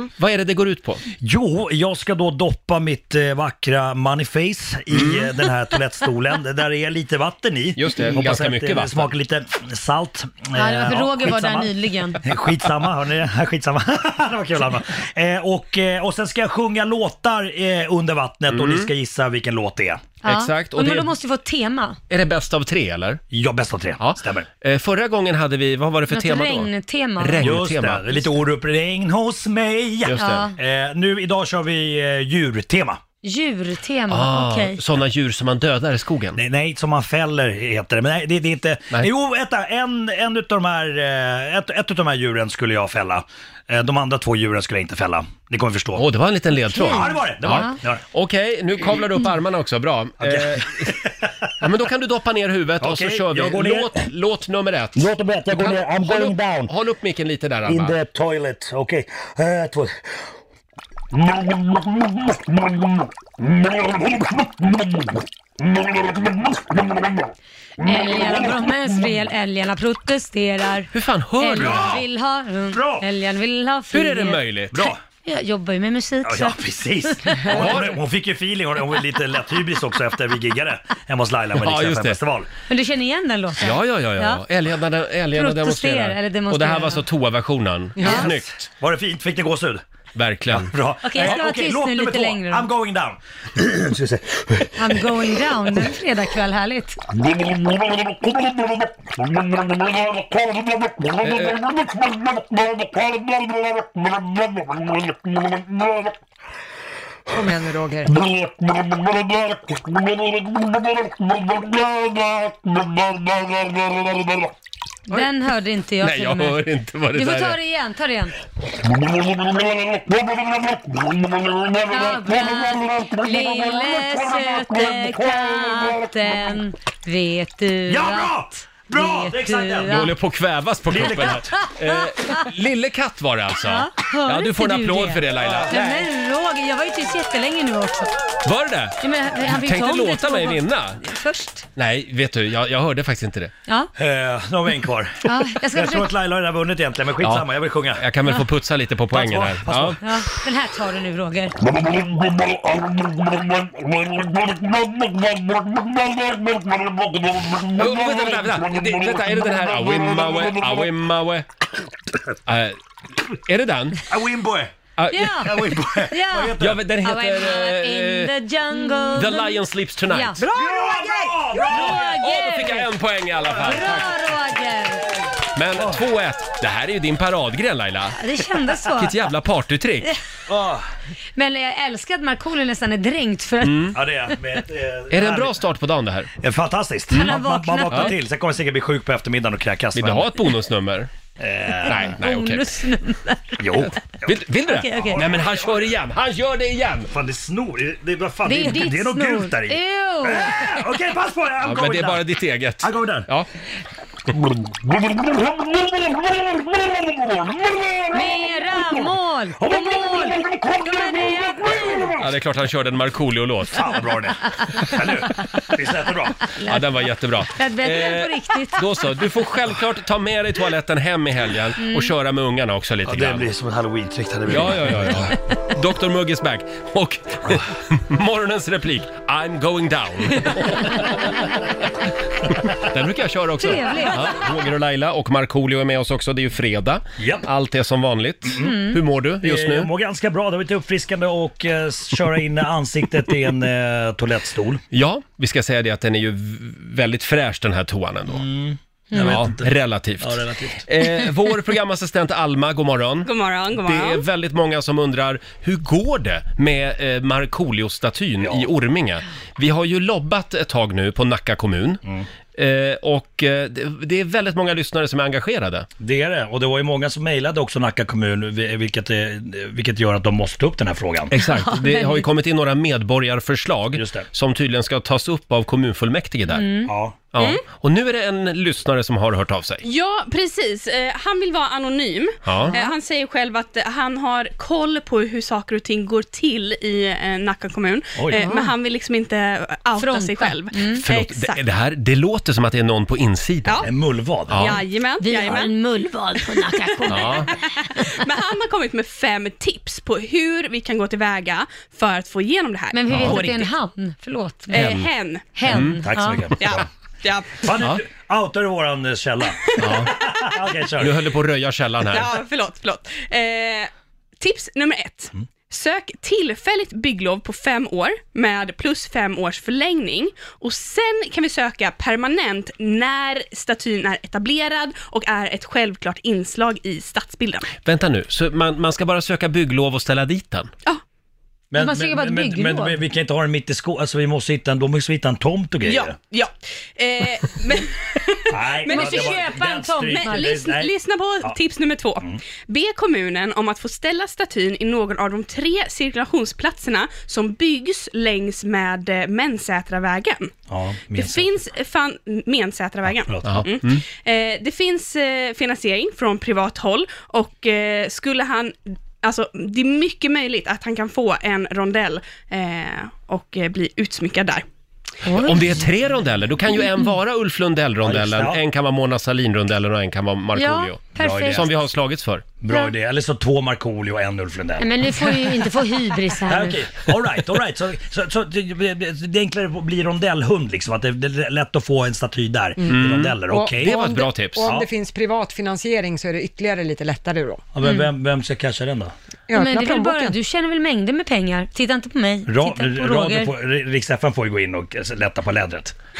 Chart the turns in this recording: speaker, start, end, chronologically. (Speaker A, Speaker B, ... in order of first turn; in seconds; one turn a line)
Speaker A: 0.2-1.0
Speaker B: 1.2-20.1
Speaker A: 4.9-5.3
Speaker A: 7.8-9.1
Speaker C: 10.5-12.2
Speaker A: 18.5-18.9
Speaker C: 20.2-22.0
Speaker A: 20.2-21.1
Speaker A: 22.1-23.2
Speaker B: 23.3-24.5
Speaker A: 24.0-28.2
Speaker C: 26.1-27.4
Speaker B: 27.4-33.0
Speaker A: 30.1-30.5
Speaker C: 30.2-30.6
Speaker C: 33.2-34.8
Speaker A: 34.1-36.4
Speaker B: 36.4-46.1
Speaker A: 46.0-51.0
Speaker C: 46.7-47.8
Speaker B: 46.8-48.0
Speaker B: 50.2-51.3
Speaker A: 51.6-58.0
Speaker B: 52.8-54.1
Speaker B: 55.0-56.7
Speaker B: 57.6-60.0
Speaker B: 61.2-62.8
Speaker B: 63.4-64.8
Speaker C: 67.8-74.4
Speaker A: 70.9-72.0
Speaker B: 71.6-72.0
Speaker B: 72.7-73.1
Speaker A: 73.9-74.9
Speaker B: 74.7-75.0
Speaker C: 75.2-77.7
Speaker B: 76.2-82.5
Speaker A: 77.5-77.9
Speaker A: 81.6-82.2
Speaker C: 82.7-84.4
Speaker A: 83.6-88.7
Speaker C: 85.3-87.0
Speaker C: 88.0-88.3
Speaker B: 88.0-89.8
Speaker A: 90.1-91.4
Speaker B: 90.5-95.0
Speaker C: 91.0-92.7
Speaker C: 94.8-97.0
Speaker A: 101.2-101.7
Speaker D: 107.3-108.2
Speaker C: 115.1-116.6
Speaker A: 116.0-117.6
Speaker C: 117.1-118.4
Speaker C: 121.8-130.1
Speaker B: 127.9-130.1
Speaker A: 129.8-136.1
Speaker B: 130.9-131.5
Speaker C: 131.0-132.4
Speaker C: 133.6-138.1
Speaker B: 135.3-135.8
Speaker A: 138.4-141.0
Speaker C: 139.0-141.7
Speaker A: 141.8-143.5
Speaker B: 144.0-148.0
Speaker C: 145.2-146.1
Speaker A: 147.2-150.0
Speaker B: 149.1-150.0
Speaker C: 150.0-151.6
Speaker A: 157.6-161.5
Speaker A: 162.5-162.8
Speaker A: 163.3-164.0
Speaker B: 164.1-164.7
Speaker A: 165.0-165.7
Speaker C: 165.1-172.9
Speaker B: 165.3-166.8
Speaker A: 166.6-168.3
Speaker A: 169.1-170.4
Speaker B: 170.5-172.2
Speaker A: 171.8-174.1
Speaker C: 173.6-175.3
Speaker A: 175.5-178.2
Speaker C: 178.2-179.2
Speaker A: 178.9-180.1
Speaker B: 180.5-180.9
Speaker C: 181.4-184.0
Speaker A: 183.6-184.0
Speaker B: 183.9-185.6
Speaker A: 185.1-186.3
Speaker B: 186.4-190.3
Speaker C: 187.1-188.2
Speaker A: 189.9-191.1
Speaker B: 191.4-192.2
Speaker A: 191.8-192.7
Speaker C: 191.9-193.6
Speaker B: 193.6-196.0
Speaker A: 194.2-197.1
Speaker C: 194.7-195.2
Speaker B: 197.1-202.3
Speaker C: 198.4-200.9
Speaker A: 201.6-203.5
Speaker B: 202.8-203.3
Speaker C: 208.1-212.2
Speaker A: 212.2-213.9
Speaker B: 213.7-216.5
Speaker C: 216.6-216.8
Speaker A: 216.6-223.5
Speaker C: 217.6-218.8
Speaker C: 221.8-222.1
Speaker B: 223.1-225.3
Speaker A: 224.5-231.7
Speaker A: 232.4-239.9
Speaker C: 233.6-234.4
Speaker B: 237.2-237.5
Speaker B: 238.5-238.8
Speaker C: 238.6-239.0
Speaker B: 239.4-244.8
Speaker A: 244.9-248.4
Speaker B: 248.3-250.8
Speaker A: 249.1-262.0
Speaker E: 253.2-254.2
Speaker B: 258.4-258.7
Speaker A: 262.6-265.9
Speaker B: 266.0-271.3
Speaker A: 271.3-276.7
Speaker C: 271.4-272.3
Speaker B: 273.9-274.3
Speaker C: 276.5-276.9
Speaker B: 276.9-277.3
Speaker A: 277.3-279.8
Speaker E: 279.8-291.6
Speaker A: 282.4-282.7
Speaker C: 282.7-282.9
Speaker B: 288.1-288.5
Speaker C: 288.3-288.7
Speaker C: 290.0-291.0
Speaker A: 290.9-293.9
Speaker E: 293.6-293.9
Speaker B: 293.8-294.8
Speaker A: 294.5-294.8
Speaker E: 294.6-295.7
Speaker C: 295.2-298.1
Speaker E: 296.4-303.7
Speaker A: 297.1-297.5
Speaker C: 302.9-304.9
Speaker A: 303.1-303.4
Speaker E: 304.7-305.5
Speaker A: 304.7-305.1
Speaker C: 305.6-306.5
Speaker B: 305.6-306.9
Speaker A: 305.7-306.0
Speaker E: 306.6-307.6
Speaker B: 307.6-311.2
Speaker A: 309.8-310.1
Speaker A: 311.0-312.3
Speaker E: 312.1-327.7
Speaker A: 327.8-330.7
Speaker B: 331.7-336.1
Speaker C: 331.8-333.0
Speaker E: 335.8-339.4
Speaker B: 338.5-340.9
Speaker C: 338.9-340.6
Speaker E: 340.1-350.6
Speaker B: 350.7-351.5
Speaker E: 351.1-364.6
Speaker B: 353.1-353.6
Speaker A: 353.4-354.0
Speaker C: 365.2-365.9
Speaker A: 365.3-372.4
Speaker B: 368.0-368.6
Speaker C: 370.6-371.6
Speaker B: 371.1-371.7
Speaker B: 372.6-375.1
Speaker C: 374.8-377.0
Speaker B: 376.5-384.0
Speaker D: 382.8-387.6
Speaker A: 382.9-384.7
Speaker B: 384.6-384.9
Speaker B: 387.7-389.1
Speaker C: 387.8-388.1
Speaker D: 389.5-390.4
Speaker C: 389.5-393.5
Speaker B: 392.5-395.9